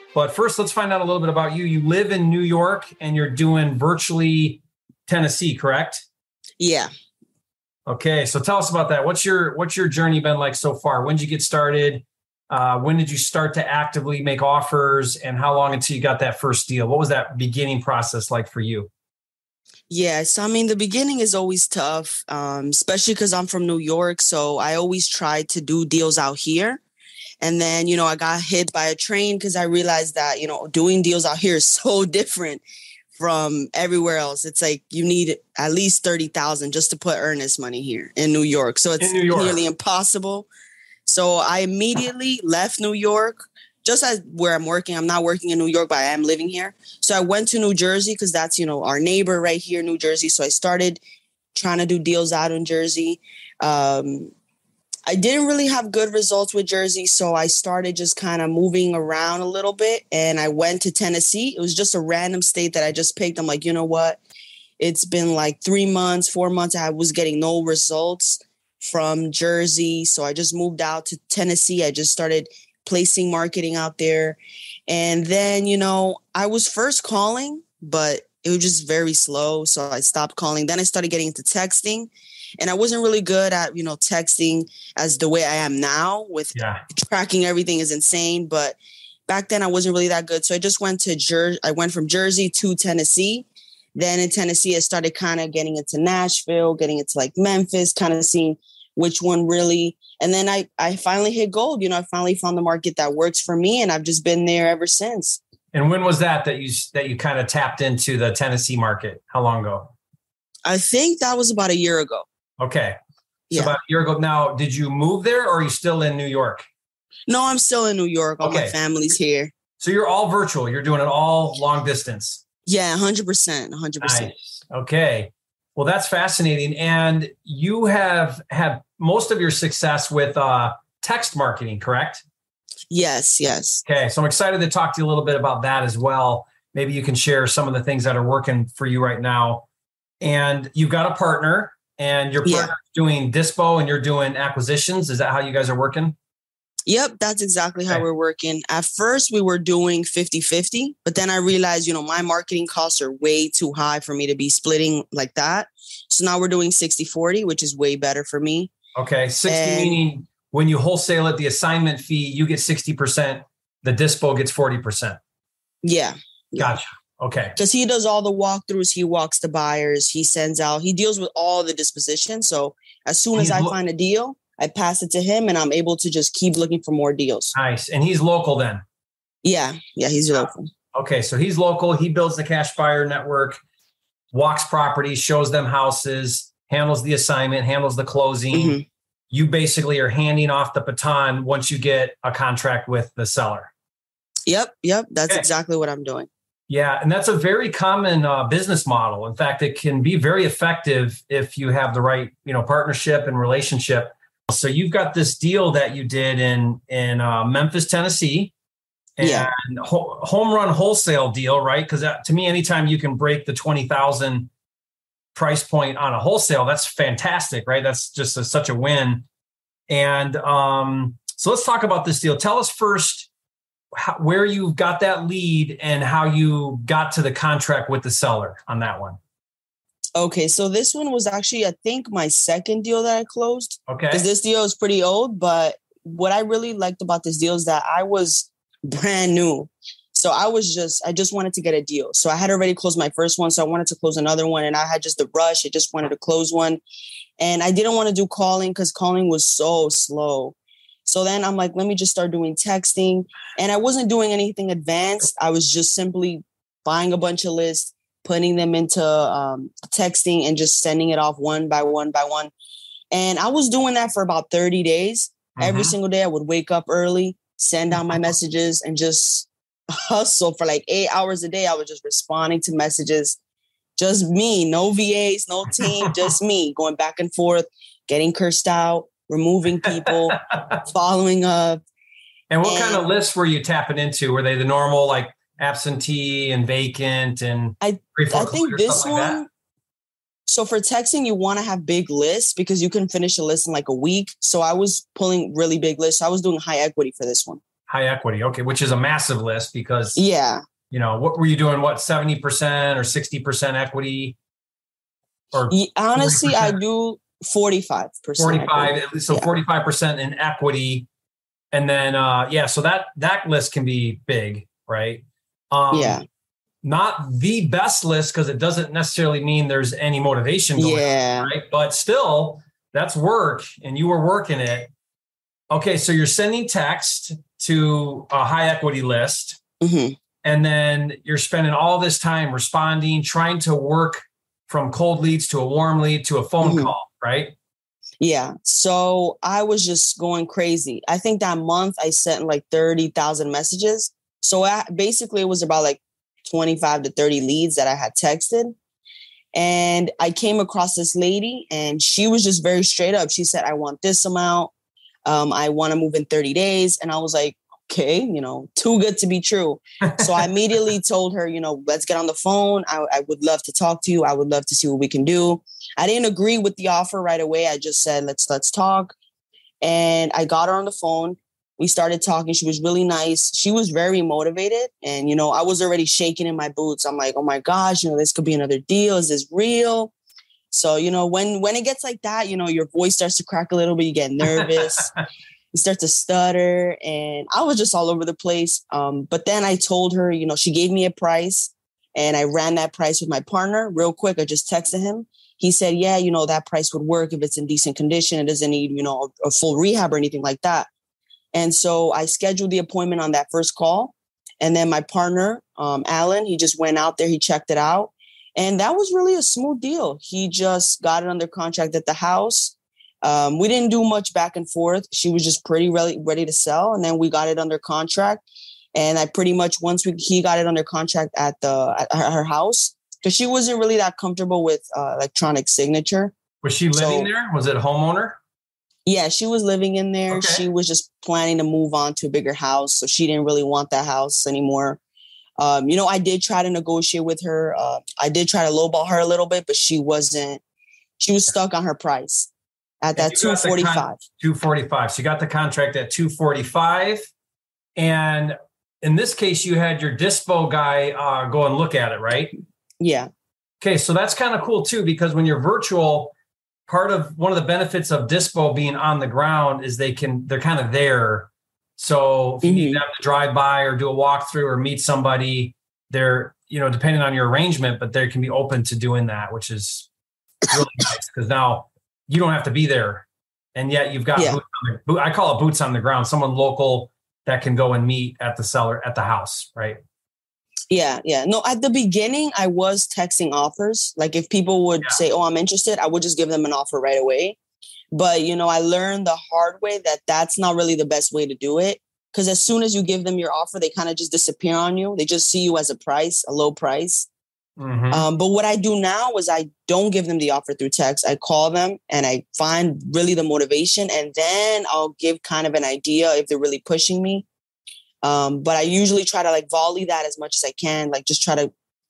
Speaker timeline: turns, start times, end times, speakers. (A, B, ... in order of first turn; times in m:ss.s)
0:00.1-0:06.0 A
0:06.6-0:06.9 B
0:07.9-0:18.9 A
0:19.9-0:26.8 B
0:27.4-0:32.6 B
0:33.1-0:40.5 B
0:39.0-0:39.6 A
0:41.0-0:51.0 B
0:51.5-0:54.3 B
0:55.1-1:04.2 B
1:04.8-1:28.8 B
1:26.5-1:26.8 A
1:29.3-1:45.4 B
1:45.7-1:49.9 A
1:50.6-1:52.2 B
1:52.6-1:53.0 A
1:53.5-1:53.8 B
1:53.5-1:56.6 A
1:57.3-1:59.5 B
1:58.4-1:58.8 A
1:59.8-2:02.4 A
2:02.7-2:04.3 B
2:04.0-2:12.2 A
2:12.9-2:13.8 B
2:13.8-2:19.6 A
2:20.2-2:26.1 A
2:22.4-2:22.7 B
2:26.9-2:38.7 B
2:38.9-2:45.2 A
2:39.5-2:40.0 B
2:45.8-2:46.8 B
2:46.6-2:47.6 A
2:47.6-2:57.5 B
2:53.4-2:53.7 A
2:57.5-2:58.8 A
2:59.4-3:00.7 B
3:00.3-3:03.6 A
3:04.3-3:08.8 A
3:08.5-3:08.8 B
3:09.3-3:13.7 A
3:14.5-3:16.3 B
3:16.7-3:28.5 A
3:29.2-3:34.5 A
3:29.2-3:29.5 B
3:35.3-3:39.2 A
3:39.9-3:43.3 A
3:44.0-3:49.2 A
3:50.2-4:06.8 B
3:53.9-3:54.2 A
4:07.4-4:22.5 B
4:23.1-4:33.4 B
4:25.6-4:25.9 A
4:34.0-4:41.8 B
4:35.7-4:36.3 A
4:40.0-4:40.5 A
4:42.5-4:49.4 A
4:42.6-4:43.1 B
4:47.8-4:49.5 B
4:50.5-4:57.6 B
4:57.9-5:00.2 A
5:00.2-5:00.6 B
5:00.9-5:04.4 A
5:05.5-5:06.8 A
5:05.7-5:09.5 B
5:08.4-5:11.1 A
5:11.7-5:16.2 A
5:15.9-5:16.2 B
5:16.8-5:24.9 A
5:20.8-5:21.5 B
5:25.7-5:29.6 A
5:29.8-5:30.2 B
5:30.4-5:37.5 A
5:36.6-5:36.9 B
5:38.2-5:48.7 B
5:49.5-5:54.7 B
5:55.2-6:09.1 B
6:00.0-6:00.4 A
6:09.8-6:20.1 B
6:20.7-6:25.1 B
6:24.5-6:25.2 A
6:25.7-6:40.9 B
6:41.5-6:58.4 B
6:58.9-7:06.3 B
7:06.6-7:08.4 A
7:06.9-7:07.3 B
7:09.0-7:15.0 B
7:10.3-7:10.6 A
7:15.6-7:20.6 B
7:21.2-7:22.5 B
7:23.0-7:24.2 B
7:23.2-7:27.3 A
7:28.0-7:32.5 A
7:33.0-7:33.3 B
7:33.8-7:36.3 A
7:36.9-7:50.1 A
7:42.6-7:43.0 B
7:50.7-8:00.0 A
8:00.9-8:07.6 B
8:08.1-8:17.3 B
8:17.8-8:18.2 A
8:18.1-8:27.4 B
8:28.2-8:31.7 B